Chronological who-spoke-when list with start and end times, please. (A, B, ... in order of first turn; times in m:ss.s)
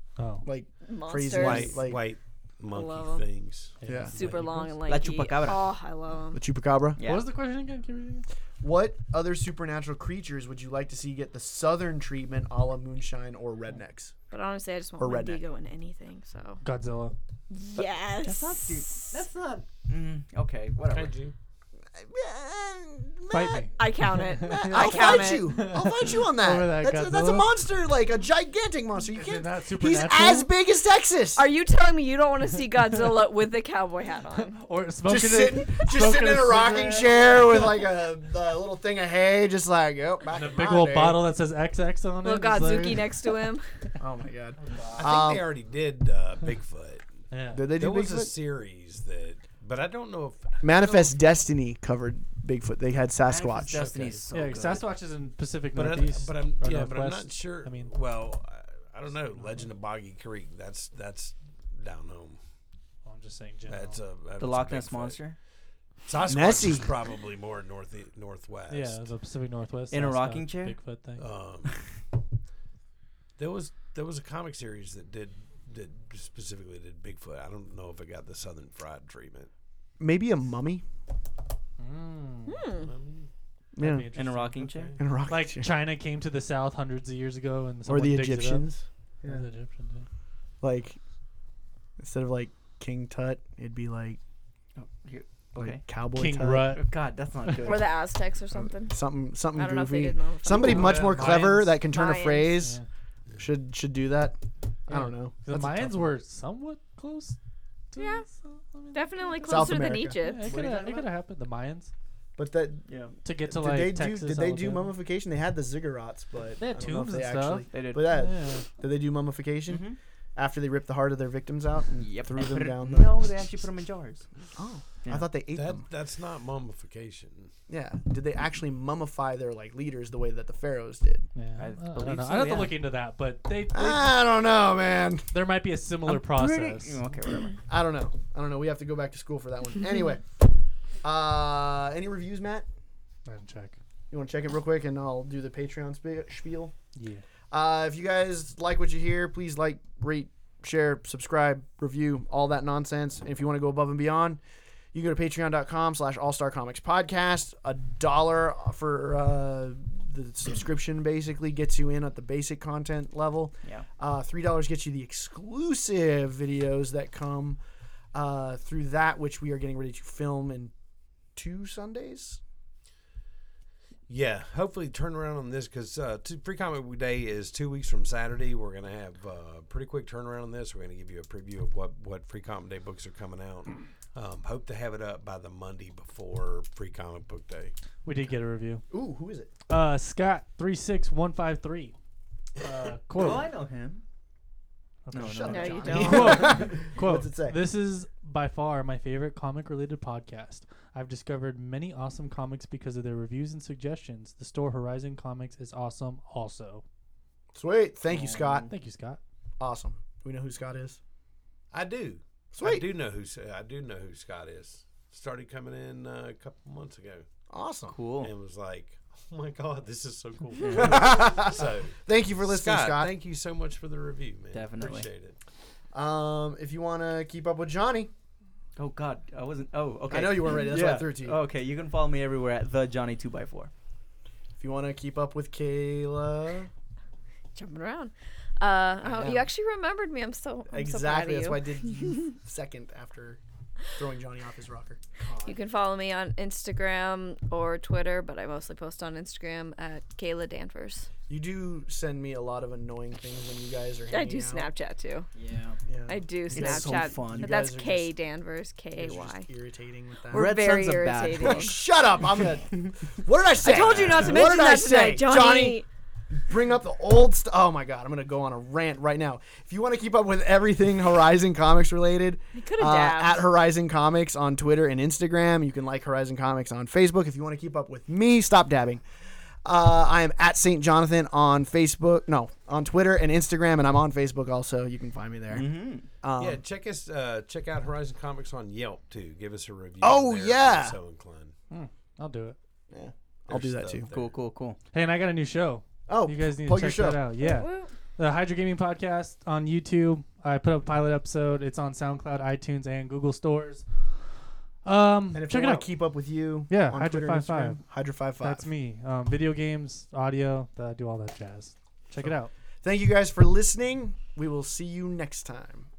0:00.2-0:00.5 A
0:00.4-0:02.1 B
0:00.8-0:02.0 C
0:01.3-0:03.7 D
0:02.7-0:03.2 C
0:03.8-0:04.8 A
0:03.8-0:04.2 B
0:04.2-0:06.4 C
0:04.9-0:05.7 E
0:06.3-0:07.0 B
0:07.0-0:07.3 E
0:07.0-0:08.3 A
0:08.6-0:14.1 B
0:14.3-0:16.6 C
0:15.0-0:15.4 B
0:16.6-0:17.2 A
0:17.5-0:19.2 C
0:18.2-0:21.1 E
0:20.8-0:21.1 B
0:20.9-0:21.3 D
0:21.9-0:23.7 B
0:23.3-0:27.5 A
0:23.8-0:25.5 C
0:24.4-0:31.5 B
0:29.1-0:30.5 A
0:31.4-0:34.6 C
0:34.5-0:37.7 A
0:35.0-0:41.3 B
0:40.3-0:43.2 A
0:40.3-0:40.8 D
0:42.2-0:43.6 C
0:42.5-0:43.0 B
0:44.0-0:45.5 B
0:44.9-0:47.1 D
0:47.3-0:47.7 A
0:47.5-0:48.3 B
0:47.7-0:51.0 D
0:50.6-0:53.9 B
0:53.2-0:54.9 E
0:53.7-0:57.9 A
0:55.7-1:02.4 D
1:03.0-1:04.0 A
1:03.7-1:05.2 D
1:04.4-1:05.4 E
1:06.1-1:09.0 D
1:06.3-1:06.9 B
1:08.7-1:11.3 A
1:09.9-1:10.8 E
1:11.2-1:11.8 D
1:13.4-1:19.5 D
1:20.0-1:20.8 B
1:21.8-1:22.7 A
1:22.5-1:22.9 C
1:22.7-1:23.3 D
1:23.8-1:24.1 B
1:23.8-1:24.6 A
1:24.1-1:24.9 E
1:24.6-1:25.0 D
1:25.0-1:25.7 B
1:25.3-1:28.7 A
1:27.9-1:29.4 B
1:29.2-1:30.1 A
1:30.6-1:31.0 B
1:32.0-1:34.2 B
1:34.8-1:35.8 E
1:35.6-1:36.8 B
1:36.2-1:36.8 A
1:36.6-1:37.9 E
1:37.6-1:39.0 C
1:38.5-1:42.8 B
1:39.6-1:41.1 C
1:40.5-1:41.8 A
1:41.9-1:42.6 C
1:43.4-1:46.1 B
1:44.9-1:47.4 A
1:47.9-1:51.9 A
1:48.0-1:48.2 C
1:48.9-1:50.6 C
1:49.4-1:50.2 B
1:50.4-1:51.1 E
1:52.4-1:52.9 B
1:52.9-1:53.2 E
1:53.2-1:54.9 A
1:53.4-1:59.8 B
1:56.6-1:58.7 A
1:57.7-1:58.2 E
1:59.7-2:00.0 E
2:00.4-2:03.1 B
2:02.0-2:04.3 E
2:04.6-2:05.9 B
2:05.0-2:05.3 E
2:05.5-2:07.5 D
2:07.7-2:11.3 B
2:11.4-2:14.1 A
2:11.6-2:12.8 E
2:13.7-2:15.3 B
2:15.3-2:17.0 A
2:16.0-2:17.6 E
2:17.7-2:20.2 B
2:21.0-2:22.6 B
2:23.3-2:23.8 A
2:24.1-2:26.7 B
2:26.9-2:27.2 A
2:27.5-2:34.4 B
2:34.9-2:47.6 B
2:48.1-2:50.7 B
2:51.4-2:52.4 B
2:54.1-3:07.7 D
3:08.0-3:08.8 A
3:08.9-3:09.5 B
3:09.7-3:11.9 A
3:12.6-3:13.5 A
3:13.1-3:14.0 E
3:15.1-3:26.8 A
3:15.1-3:16.5 E
3:15.2-3:17.6 B
3:15.5-3:16.4 C
3:27.5-3:28.7 B
3:28.1-3:28.7 E
3:28.7-3:29.2 A
3:29.6-3:31.0 B
3:31.7-3:37.3 D
3:32.5-3:32.8 B
3:37.5-3:37.9 B
3:37.9-3:38.3 E
3:38.2-3:45.4 D
3:40.7-3:43.1 B
3:44.5-3:45.1 E
3:45.9-3:48.1 B
3:48.8-3:53.7 E
3:50.1-3:51.4 B
3:54.6-3:56.7 B
3:57.6-4:02.2 C
3:59.0-3:59.5 B
4:00.7-4:03.4 B
4:03.9-4:05.6 B
4:05.4-4:11.1 C
4:11.3-4:14.7 B
4:14.1-4:15.3 C
4:15.3-4:15.8 E
4:15.9-4:18.1 B
4:16.1-4:19.5 C
4:16.5-4:17.6 E
4:18.9-4:20.5 B
4:20.3-4:21.8 C
4:20.3-4:21.7 E
4:21.4-4:39.0 B
4:23.6-4:25.9 C
4:23.6-4:24.5 D
4:32.6-4:33.4 C
4:39.6-4:46.6 B
4:45.5-4:46.1 E
4:46.4-4:51.6 D
4:50.0-4:51.0 B
4:51.7-4:52.6 A
4:52.9-4:54.1 B
4:53.5-4:54.3 D
4:54.1-4:54.8 E
4:54.9-5:03.9 A
4:56.1-4:57.3 B
4:57.4-4:57.9 C
5:04.8-5:05.9 A
5:05.3-5:08.6 B
5:06.7-5:07.8 A
5:08.4-5:12.5 A
5:12.8-5:15.9 B